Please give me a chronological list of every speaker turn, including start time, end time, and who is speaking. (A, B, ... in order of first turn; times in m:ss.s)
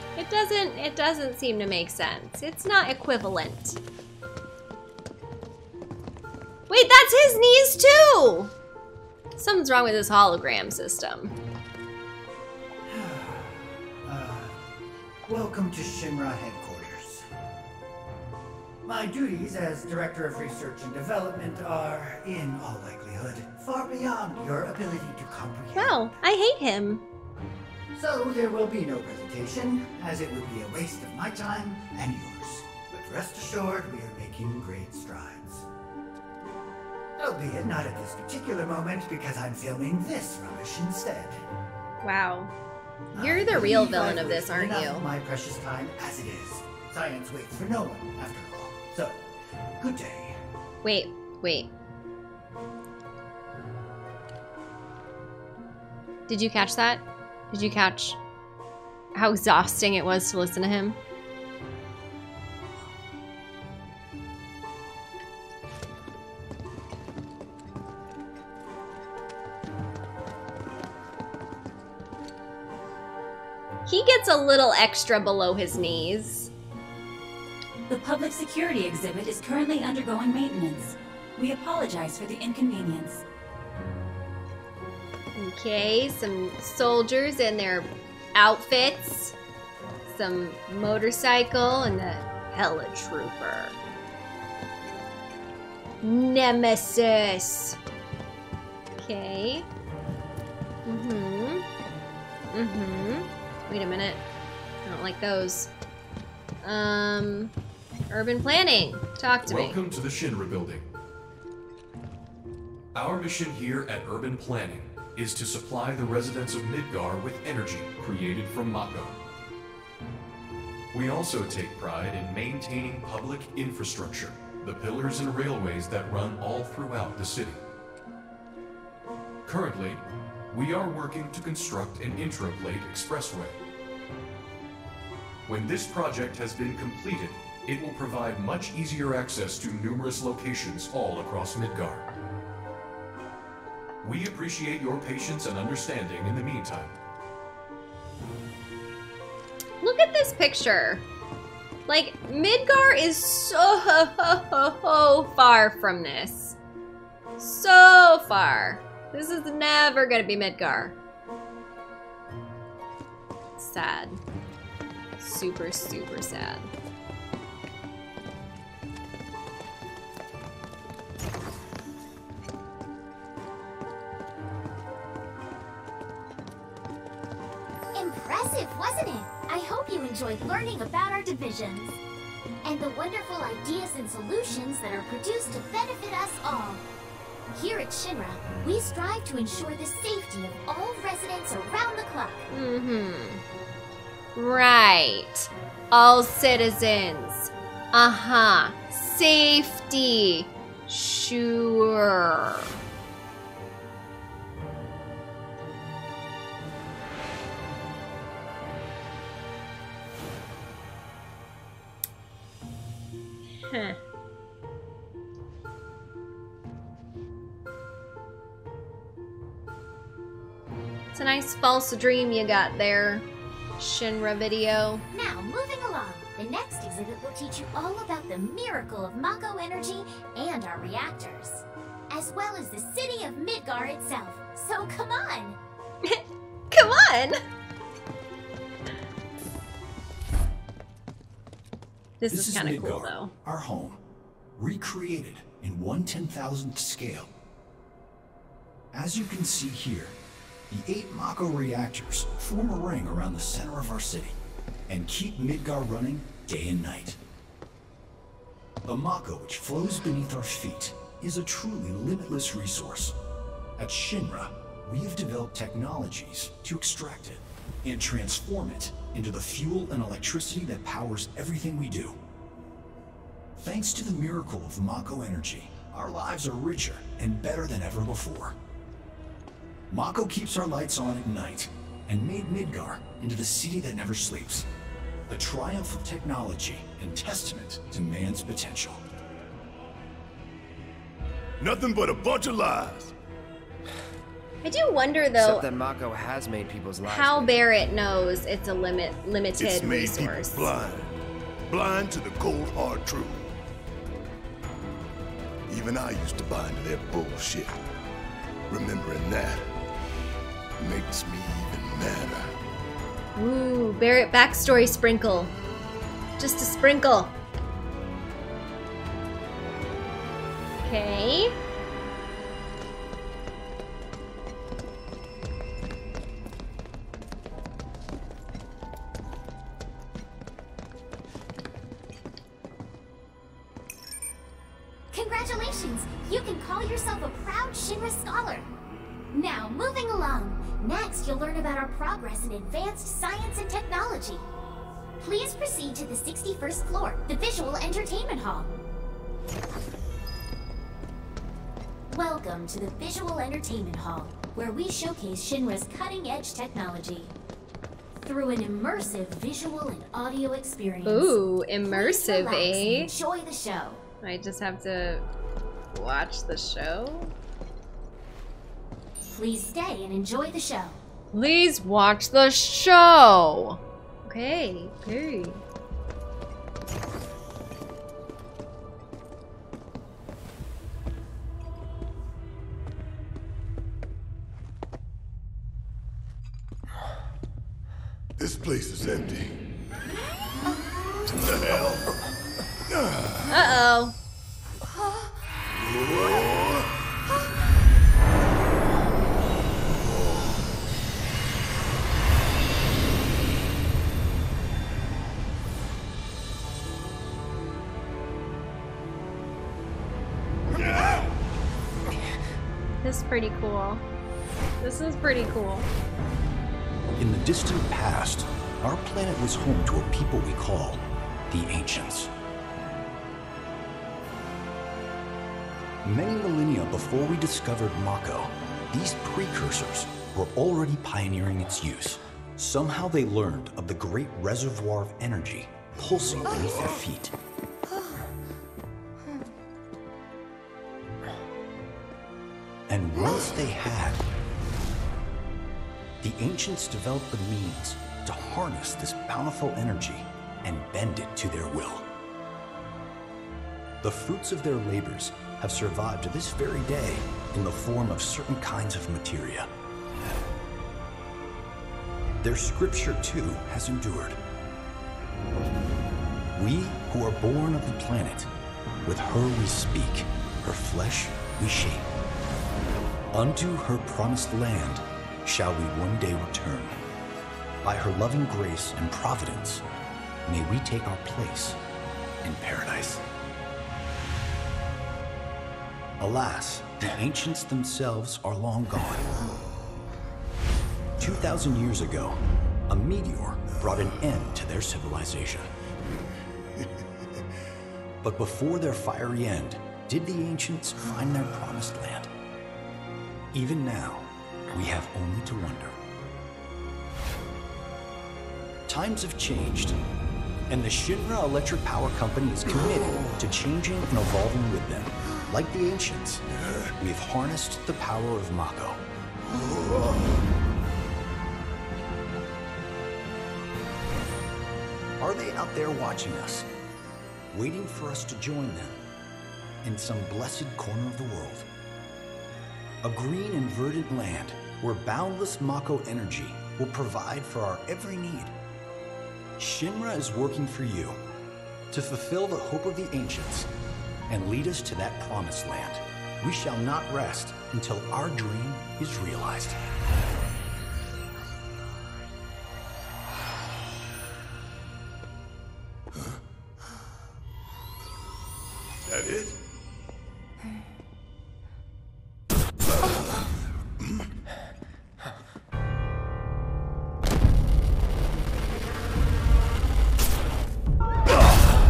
0:00.2-0:03.8 A
0:06.7-0:08.5 A
0:09.4-0:11.4 A
0:12.9-0:14.6 B
0:15.2-0:17.2 B
0:18.8-0:25.9 B
0:25.7-0:27.0 A
0:27.9-0:35.6 B
0:37.2-0:41.4 B
0:42.0-0:42.5 A
0:43.1-0:45.0 A
0:43.1-0:49.2 B
0:43.4-0:44.8 C
0:49.8-0:50.4 B
0:50.8-0:51.7 A
0:56.3-0:58.2 A
0:59.1-1:01.0 A
1:13.8-1:16.5 A
1:17.9-1:23.2 D
1:25.4-1:29.3 A
1:30.1-1:33.8 A
1:36.0-1:37.8 A
1:39.0-1:39.6 A
1:40.8-1:41.6 A
1:42.5-1:44.2 A
1:44.8-1:45.7 A
1:46.6-1:47.5 A
1:48.1-1:49.8 A
1:49.4-1:50.8 E
1:52.9-1:59.1 E
2:00.9-2:07.6 E
2:09.4-2:13.5 E
2:15.5-2:22.0 E
2:24.0-2:26.9 E
2:29.8-2:31.0 A
2:31.9-2:36.6 A
2:37.4-2:40.9 A
2:43.6-2:44.2 A
2:45.2-2:46.7 A
2:57.9-3:02.0 F
3:02.6-3:06.8 F
3:07.5-3:12.4 F
3:12.5-3:13.4 A
3:14.4-3:22.7 A
3:33.6-3:34.0 A
3:41.1-3:43.2 A
3:43.8-3:45.0 A
3:45.1-3:55.6 F
3:56.0-3:57.4 A
4:02.2-4:03.3 A
4:02.3-4:04.0 C
4:04.6-4:07.3 C
4:08.9-4:10.1 C
4:10.7-4:14.4 C
4:14.9-4:17.2 C
4:18.8-4:23.1 C
4:23.8-4:32.2 C
4:33.6-4:38.5 C
4:39.9-4:44.6 C
4:45.3-4:49.0 C
4:51.6-4:53.1 G
4:54.6-4:55.7 A
4:55.3-4:57.6 H
4:57.0-5:00.7 A
4:59.6-5:01.1 G
5:01.7-5:03.5 G
5:05.7-5:07.8 G
5:08.7-5:09.6 G
5:10.8-5:12.5 G
5:13.4-5:15.5 A
5:16.4-5:17.3 A
5:20.8-5:21.5 A
5:35.1-5:38.7 F
5:39.3-5:44.4 F
5:45.2-5:48.8 F
5:52.1-5:57.3 F
5:58.2-6:04.0 F
6:01.0-6:03.1 A
6:04.2-6:05.2 A
6:05.9-6:07.3 A
6:09.2-6:11.0 F
6:11.3-6:15.6 A
6:28.4-6:29.6 G
6:31.2-6:32.1 G
6:32.9-6:33.5 G
6:33.5-6:34.1 A
6:35.7-6:36.9 G
6:40.1-6:40.5 G
6:50.7-6:51.3 G
6:53.0-6:54.0 A
6:54.8-6:55.9 A
6:57.2-7:02.3 C
7:06.0-7:17.3 C
7:22.9-7:24.2 C
7:26.2-7:32.0 C
7:34.0-7:39.7 C
7:42.4-7:44.4 C
7:46.6-7:48.5 C
7:49.0-7:52.1 C
7:53.3-7:57.0 C
7:57.8-7:59.8 C
8:00.4-8:01.8 C
8:02.4-8:03.2 C
8:06.2-8:09.4 C
8:11.2-8:12.4 C
8:12.9-8:15.7 C
8:18.2-8:22.3 C
8:23.5-8:26.0 C
8:28.9-8:30.0 C
8:30.7-8:36.4 C
8:37.0-8:39.0 C
8:39.5-8:40.4 G
8:45.2-8:46.7 C
8:47.5-8:49.0 C
8:49.8-8:51.6 C
8:53.0-8:58.5 C
8:59.6-9:01.2 C
9:01.9-9:03.7 C
9:04.3-9:09.8 C
9:19.1-9:19.5 G